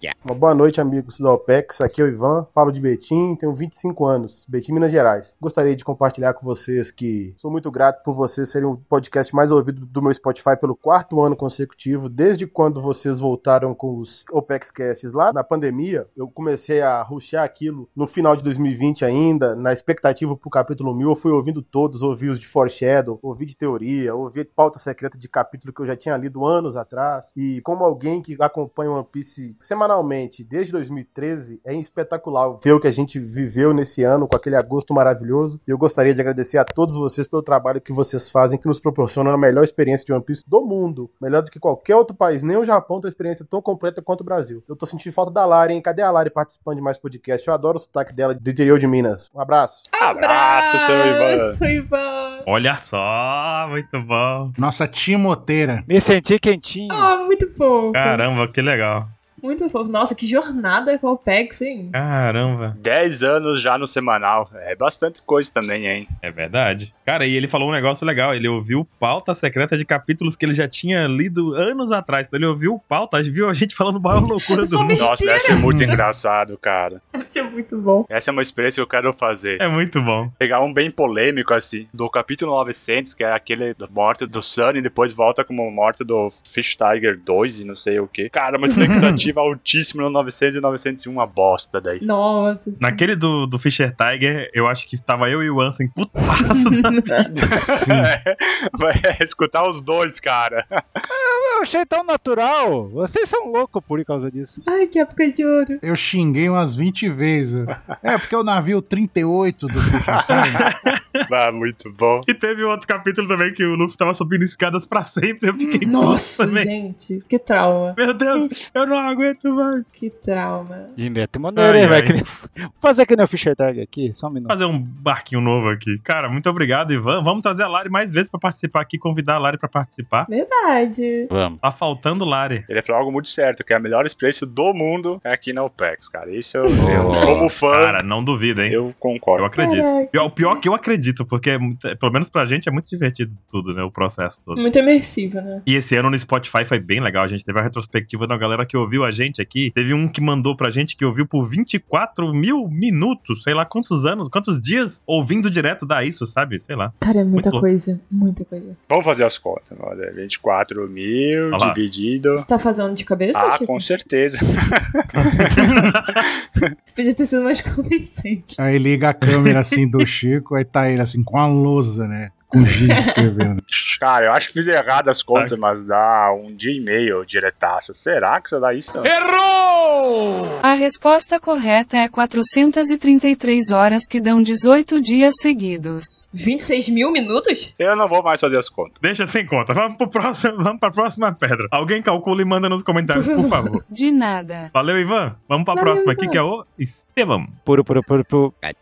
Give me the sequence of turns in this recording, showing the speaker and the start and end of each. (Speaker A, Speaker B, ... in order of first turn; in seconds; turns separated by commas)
Speaker A: 0.2-49.9, Speaker B: 49.9-52.5, Speaker C: 50.0-51.6, Speaker D: 52.5-54.5, Speaker E: 54.6-55.9, Speaker F: 55.9-57.1, Speaker B: 56.9-58.2, Speaker D: 57.9-59.1, Speaker B: 59.4-62.0, Speaker D: 61.9-62.8, Speaker C: 62.8-66.1, Speaker D: 66.2-75.2, Speaker B: 74.2-76.0, Speaker C: 75.0-77.0, Speaker B: 77.1-78.0, Speaker C: 78.1-79.6, Speaker D: 79.6-80.3, Speaker C: 80.4-92.0, Speaker E: 88.8-89.2, Speaker B: 92.0-93.0, Speaker D: 92.8-97.2, Speaker B: 96.3-97.3, Speaker C: 97.3-100.7, Speaker E: 97.5-98.2, Speaker F: 101.1-104.6, Speaker B: 104.7-105.8, Speaker E: 105.8-110.7, Speaker C: 110.0-110.5, Speaker D: 110.3-111.0, Speaker C: 111.3-112.3, Speaker D: 112.3-116.7, Speaker B: 115.8-118.5, Speaker D: 118.0-119.9, Speaker B: 120.0-120.9, Speaker F: 121.0-124.5, Speaker D: 121.6-122.2, Speaker D: 124.5-130.3, Speaker B: 130.3-131.3, Speaker F: 131.3-131.6, Speaker D: 131.6-132.7, Speaker C: 132.7-138.0, Speaker F: 136.8-137.4, Speaker D: 137.7-138.8, Speaker C: 138.7-139.5, Speaker D: 139.4-144.6, Speaker B: 139.6-140.6, Speaker B: 144.6-145.6, Speaker D: 145.7-157.7, Speaker B: 157.0-158.8, Speaker C: 158.9-162.4, Speaker D: 161.5-161.8, Speaker B: 162.4-163.8, Speaker C: 163.3-165.5, Speaker D: 165.5-166.2, Speaker B: 166.9-168.6, Speaker E: 168.6-174.0, Speaker D: 169.3-169.6, Speaker B: 172.6-173.3, Speaker C: 174.0-179.2, Speaker G: 180.6-186.2, Speaker B: 186.3-187.7, Speaker C: 187.8-189.0, Speaker D: 189.0-193.8, Speaker B: 193.1-193.8, Speaker G: 193.9-194.7, Speaker D: 194.7-197.6, Speaker B: 195.7-196.4, Speaker F: 197.7-198.6